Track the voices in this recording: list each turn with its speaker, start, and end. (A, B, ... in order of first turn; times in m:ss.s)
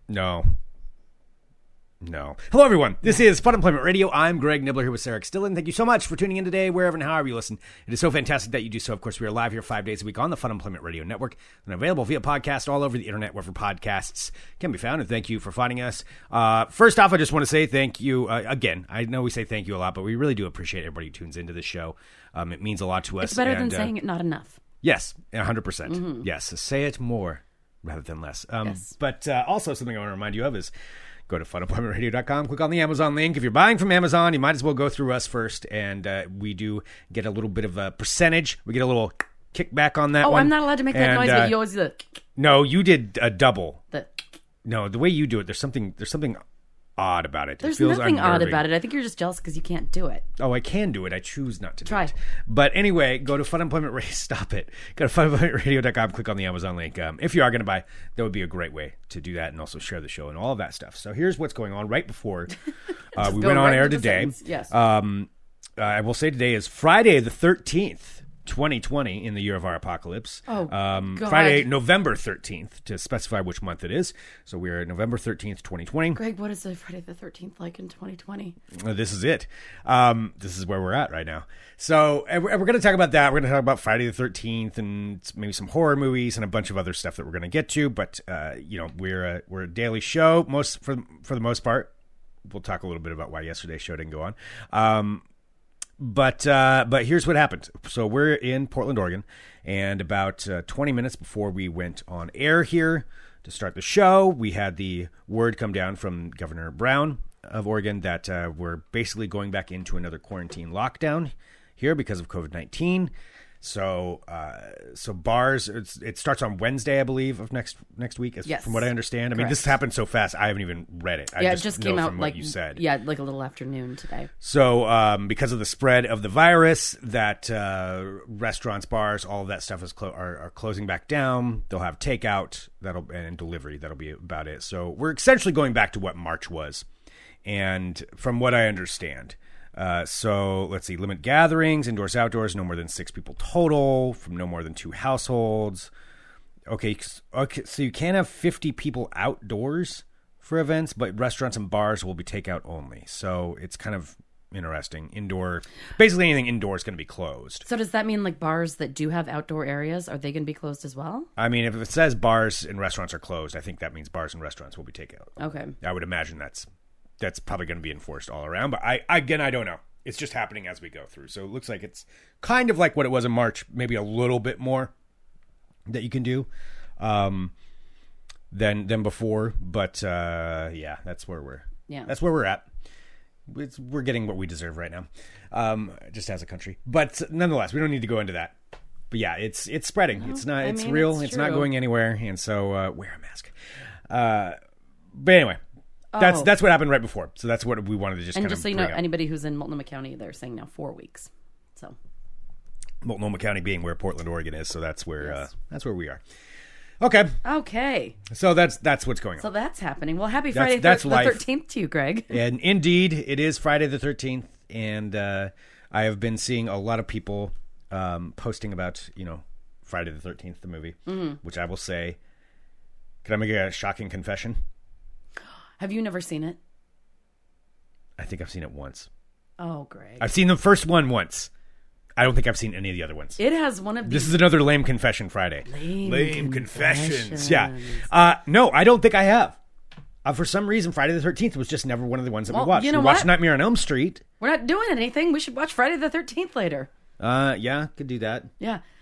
0:00.1-0:00.4 A
0:02.0-0:23.9 A
0:23.2-0:24.6 B
0:24.8-0:30.7 A
0:25.8-0:26.2 B
0:28.6-0:28.9 B
0:31.3-0:41.6 A
0:40.2-0:42.0 B
0:42.4-0:43.8 A
0:43.9-0:44.2 B
0:44.6-0:46.4 A
0:47.0-0:48.7 A
0:47.6-0:50.2 B
0:50.4-1:02.5 A
0:51.8-0:52.1 B
1:03.1-1:04.7 B
1:03.1-1:16.2 A
1:10.5-1:11.7 B
1:16.1-1:18.6 B
1:18.7-1:31.9 A
1:32.5-1:35.2 A
1:36.0-2:02.8 A
1:58.4-1:59.7 B
2:01.4-2:04.3 B
2:04.4-2:16.8 A
2:17.4-2:25.9 A
2:26.7-2:37.6 A
2:37.6-2:41.3 B
2:41.4-2:46.6 A
2:45.4-2:45.7 B
2:47.2-2:54.9 A
2:55.9-2:56.5 A
2:57.0-2:57.5 A
2:58.5-3:02.6 A
3:03.5-3:08.6 A
3:09.1-3:13.5 A
3:10.2-3:11.7 B
3:14.1-3:14.6 A
3:15.1-3:15.6 A
3:16.1-3:16.5 B
3:16.2-3:19.0 A
3:18.3-3:22.0 B
3:23.0-3:26.2 A
3:25.2-3:25.5 B
3:27.0-3:27.4 A
3:27.4-3:28.2 B
3:28.3-3:29.5 A
3:29.4-3:32.4 B
3:30.5-3:31.4 A
3:32.3-3:42.2 A
3:41.1-3:41.4 B
3:43.2-3:44.6 A
3:45.8-3:46.6 B
3:48.2-3:49.1 A
3:49.6-3:50.3 B
3:50.2-3:51.5 A
3:52.2-3:53.4 A
3:53.4-3:54.4 B
3:54.0-3:59.6 A
3:55.6-3:58.0 B
4:00.2-4:04.2 A
4:02.5-4:03.4 B
4:04.4-4:06.9 B
4:07.2-4:08.5 A